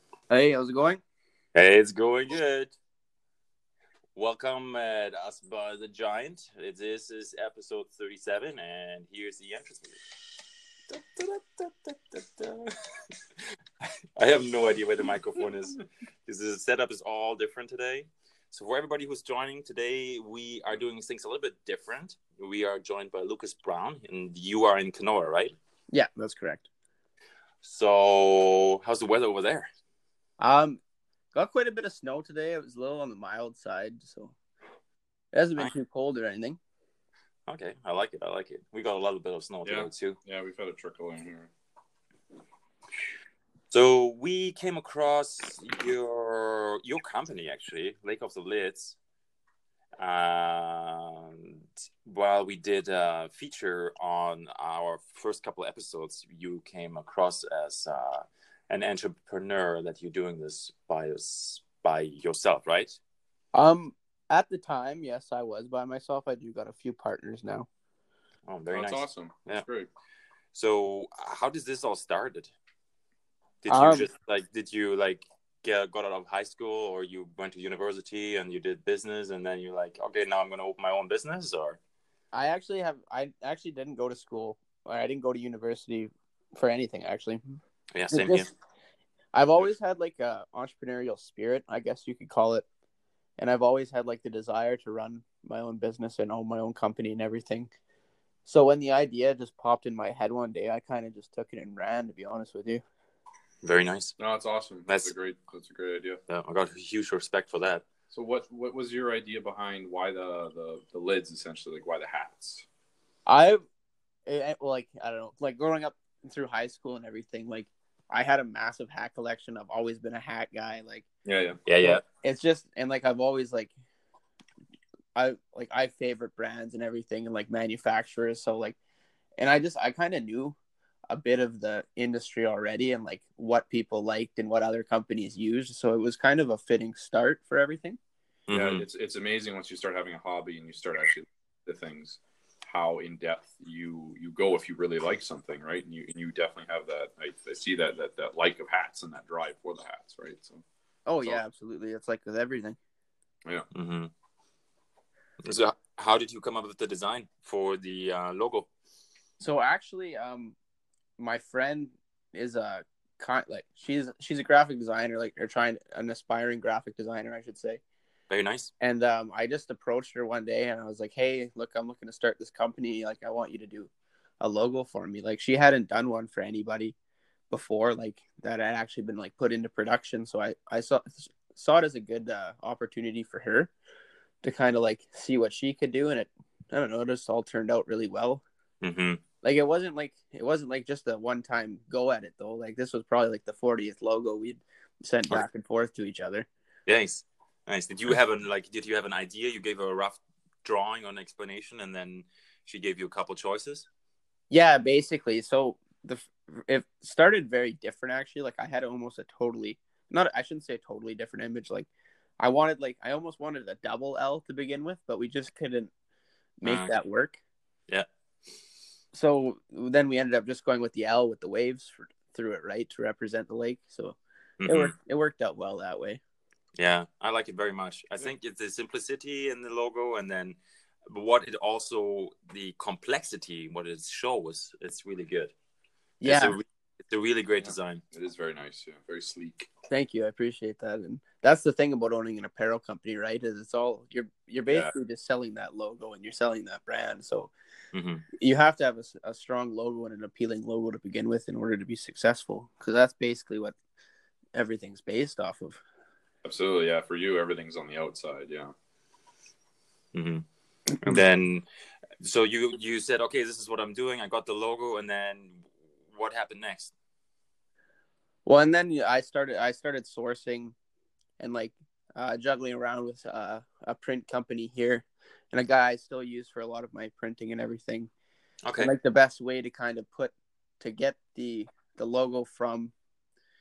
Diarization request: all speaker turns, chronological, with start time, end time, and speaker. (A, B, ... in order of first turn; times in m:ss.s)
0:00.3-0:01.0 A
0:01.5-0:02.7 B
0:04.1-0:10.0 B
0:10.9-0:13.1 B
0:14.2-0:25.6 B
0:25.9-0:26.6 A
0:27.6-0:29.7 B
0:30.4-0:30.8 A
0:31.3-0:34.3 A
0:35.3-0:36.6 A
0:37.5-0:40.2 B
0:39.6-0:41.5 C
0:43.7-0:49.0 B
0:50.0-1:03.0 B
1:03.5-1:07.7 A
1:08.5-1:09.6 B
1:08.7-1:09.9 C
1:10.5-1:12.5 B
1:13.6-1:21.8 B
1:13.7-1:14.1 A
1:22.3-1:27.4 A
1:27.9-1:28.5 B
1:28.1-1:28.5 A
1:29.3-1:32.6 A
1:33.4-1:37.7 A
1:38.4-1:42.8 A
1:43.6-1:44.1 B
1:44.2-1:46.2 C
1:44.9-1:45.1 B
1:46.3-1:47.8 B
1:48.1-1:52.6 C
1:53.3-1:53.6 A
1:54.3-2:01.0 A
2:01.2-2:01.6 C
2:01.7-2:02.0 B
2:01.8-2:03.7 A
2:05.2-2:08.8 A
2:09.4-2:10.6 A
2:11.1-2:18.0 A
2:18.5-2:18.8 B
2:18.5-2:30.6 C
2:31.0-2:32.8 A
2:33.7-2:34.1 B
2:35.4-2:38.7 B
2:39.4-2:40.6 A
2:41.2-2:47.8 A
2:48.3-2:48.7 B
2:48.8-2:53.9 A
2:54.4-2:56.9 A
2:57.5-3:03.7 A
3:04.4-3:08.4 A
3:08.8-3:09.2 B
3:09.4-3:16.5 A
3:16.9-3:23.9 B
3:24.5-3:31.9 A
3:32.4-3:35.9 A
3:36.6-3:37.4 A
3:36.6-3:36.9 B
3:39.1-3:46.2 A
3:44.6-3:44.9 B
3:46.8-3:50.6 B
3:51.1-3:55.5 B
3:56.2-3:56.6 A
3:56.2-3:58.0 B
3:57.6-3:59.7 C
3:59.9-4:07.5 A
4:07.9-4:08.2 B
4:08.4-4:13.7 A
4:14.5-4:15.8 A
4:16.4-4:18.7 C
4:20.1-4:20.4 B
4:21.0-4:21.6 B
4:22.2-4:26.9 B
4:28.4-4:30.7 A
4:31.4-4:38.1 A
4:38.6-4:38.9 B
4:38.8-4:42.9 A